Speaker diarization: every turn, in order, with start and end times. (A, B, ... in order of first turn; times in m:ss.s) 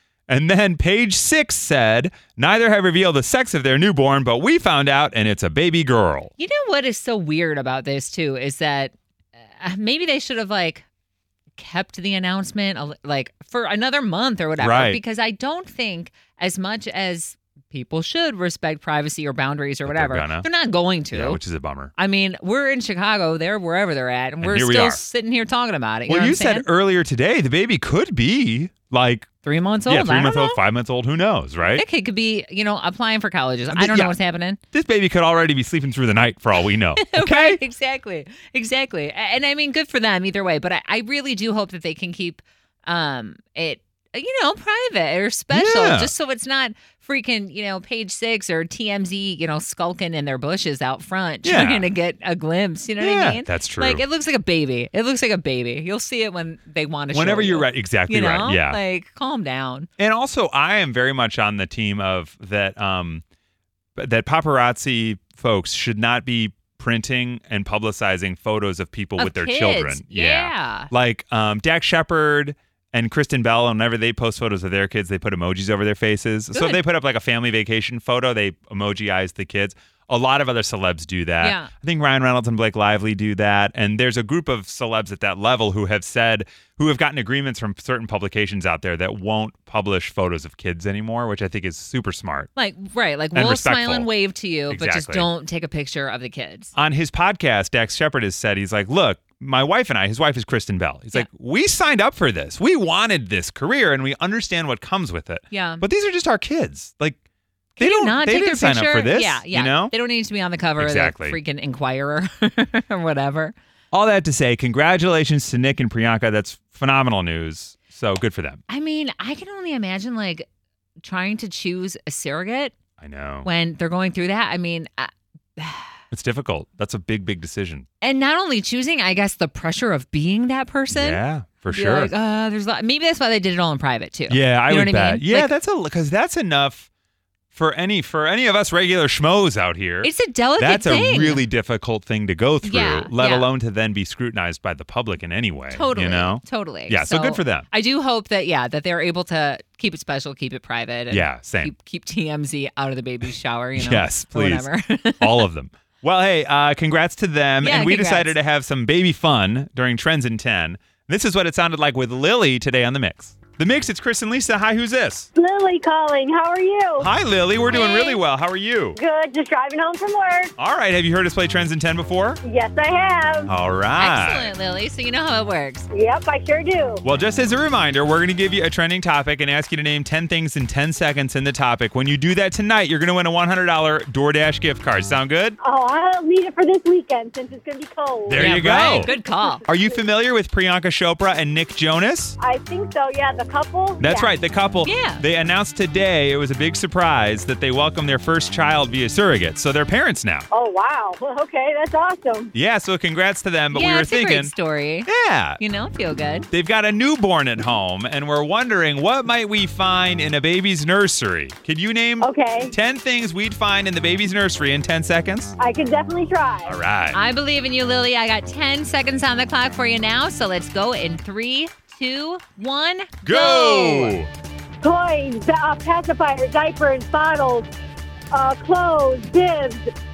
0:00.3-0:06.3 A
0:06.4-0:08.9 B
0:09.6-0:10.8 B
0:11.6-0:21.4 B
0:14.6-0:15.0 A
0:19.9-0:20.5 A
0:21.1-0:21.9 A
0:22.0-0:26.7 B
0:24.4-0:25.0 A
0:26.1-0:29.3 A
0:29.4-0:30.6 B
0:29.9-0:31.8 A
0:31.8-0:34.6 B
0:33.7-0:34.2 A
0:34.7-0:37.6 A
0:37.0-0:59.9 B
0:45.5-0:46.1 A
0:51.4-0:51.9 A
0:53.0-0:54.0 A
0:57.1-0:58.8 A
1:00.0-1:03.2 A
1:04.0-1:32.5 A
1:09.2-1:10.9 B
1:16.5-1:16.8 B
1:21.4-1:21.7 B
1:32.6-1:36.7 B
1:33.4-1:34.1 A
1:34.7-1:35.3 A
1:36.8-1:47.2 A
1:45.5-1:45.8 B
1:47.8-1:53.5 B
1:47.8-1:49.9 A
1:50.8-1:51.4 A
1:53.9-1:58.6 A
1:58.7-2:00.5 B
2:01.0-2:02.7 B
2:03.0-2:03.5 A
2:03.4-2:06.0 B
2:06.1-2:07.9 A
2:08.0-2:15.5 B
2:10.9-2:12.1 A
2:14.3-2:16.9 A
2:17.5-2:27.7 A
2:20.0-2:21.4 B
2:22.6-2:23.5 B
2:25.7-2:35.4 B
2:31.1-2:31.7 A
2:33.8-2:34.7 A
2:35.2-2:45.3 A
2:37.6-2:38.4 B
2:45.4-2:47.1 C
2:47.0-2:49.0 A
2:47.7-2:48.2 B
2:49.0-2:50.5 C
2:50.6-2:52.4 A
2:52.4-2:53.5 C
2:53.5-2:54.5 A
2:54.0-2:55.9 B
2:55.9-2:57.0 C
2:57.0-3:05.6 A
3:05.6-3:10.0 C
3:08.3-3:09.1 A
3:08.3-3:09.6 B
3:09.7-3:12.4 A
3:12.4-3:14.3 C
3:14.0-3:20.5 A
3:14.8-3:15.2 B
3:20.5-3:22.5 C
3:22.5-3:24.5 A
3:23.7-3:26.5 B
3:25.1-3:25.6 A
3:26.5-3:35.5 A
3:32.2-3:32.7 C
3:35.6-3:36.7 C
3:36.7-3:37.2 A
3:37.1-3:44.2 B
3:43.2-3:44.3 A
3:44.8-3:47.7 C
3:48.3-3:49.9 C